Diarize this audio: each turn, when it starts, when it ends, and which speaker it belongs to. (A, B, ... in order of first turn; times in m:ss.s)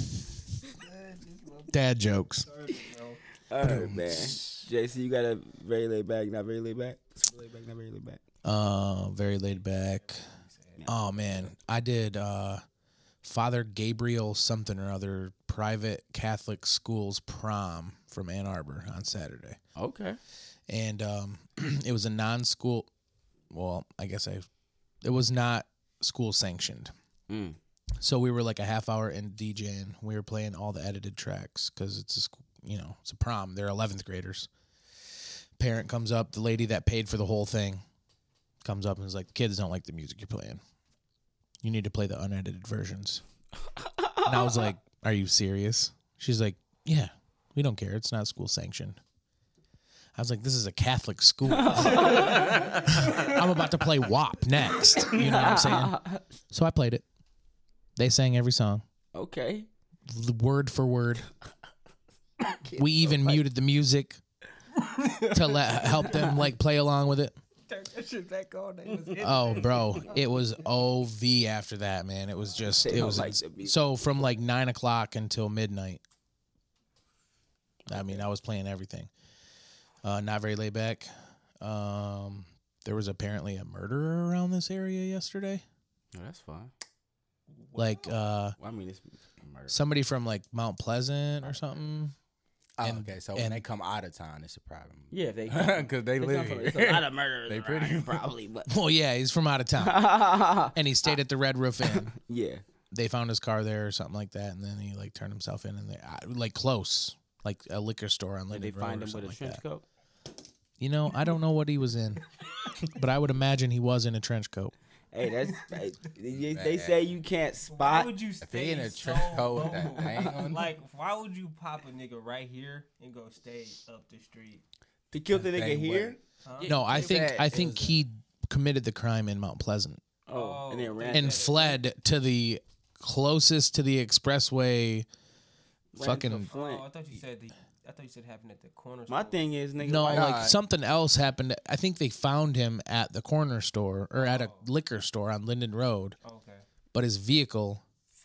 0:00.8-0:01.8 A
0:01.7-0:02.5 B
0:02.3-0:03.2 A
0:03.5-0:08.2 C
0:03.6-0:04.4 D
0:08.4-0:10.3 B
0:09.7-0:10.9 A
0:10.8-0:11.5 C
0:10.9-0:12.6 B
0:13.2-0:19.6 B
0:19.8-0:20.2 C
0:20.7-0:22.9 B
0:23.5-0:24.5 B
0:25.0-0:26.9 B
0:27.3-0:27.6 C
0:28.0-0:34.5 B
0:35.6-0:37.8 B
0:38.6-0:40.6 B
0:41.6-0:43.2 B
0:43.8-0:44.7 C
0:44.2-0:49.0 B
0:50.2-0:57.1 B
0:51.5-0:52.6 C
0:51.8-0:53.3 A
0:55.2-0:56.2 C
0:58.0-0:58.8 B
0:59.1-0:59.7 C
1:00.1-1:01.3 B
1:02.4-1:03.4 C
1:02.8-1:04.2 B
1:04.8-1:06.4 A
1:05.3-1:07.4 B
1:07.7-1:10.4 A
1:09.2-1:16.0 B
1:12.4-1:12.9 A
1:12.7-1:13.8 C
1:17.9-1:19.1 B
1:17.9-1:18.2 C
1:20.0-1:25.6 B
1:26.1-1:26.7 C
1:27.5-1:28.2 A
1:27.8-1:28.6 B
1:28.6-1:29.8 C
1:29.7-1:32.1 B
1:31.5-1:31.8 A
1:32.8-1:38.2 D
1:32.8-1:33.6 B
1:35.1-1:38.7 C
1:38.7-1:40.1 B
1:39.8-1:41.2 C
1:40.7-1:42.2 B
1:42.1-1:42.6 C
1:42.9-1:49.6 B
1:48.5-1:49.8 C
1:50.8-1:54.7 B
1:55.1-1:58.2 C
1:56.4-1:57.1 D
1:57.7-2:04.6 A
1:58.4-2:00.7 D
1:59.6-2:00.4 C
2:05.1-2:07.5 C
2:05.4-2:06.2 D
2:06.4-2:06.8 A
2:06.6-2:10.0 B
2:06.7-2:08.0 D
2:10.3-2:11.4 C
2:10.3-2:11.8 A
2:11.1-2:15.1 B
2:15.9-2:16.8 C
2:16.0-2:16.5 B
2:16.0-2:19.4 A
2:19.1-2:20.4 C
2:19.8-2:26.2 B
2:20.1-2:20.6 D
2:24.2-2:24.7 A
2:26.2-2:26.6 A
2:26.9-2:27.9 B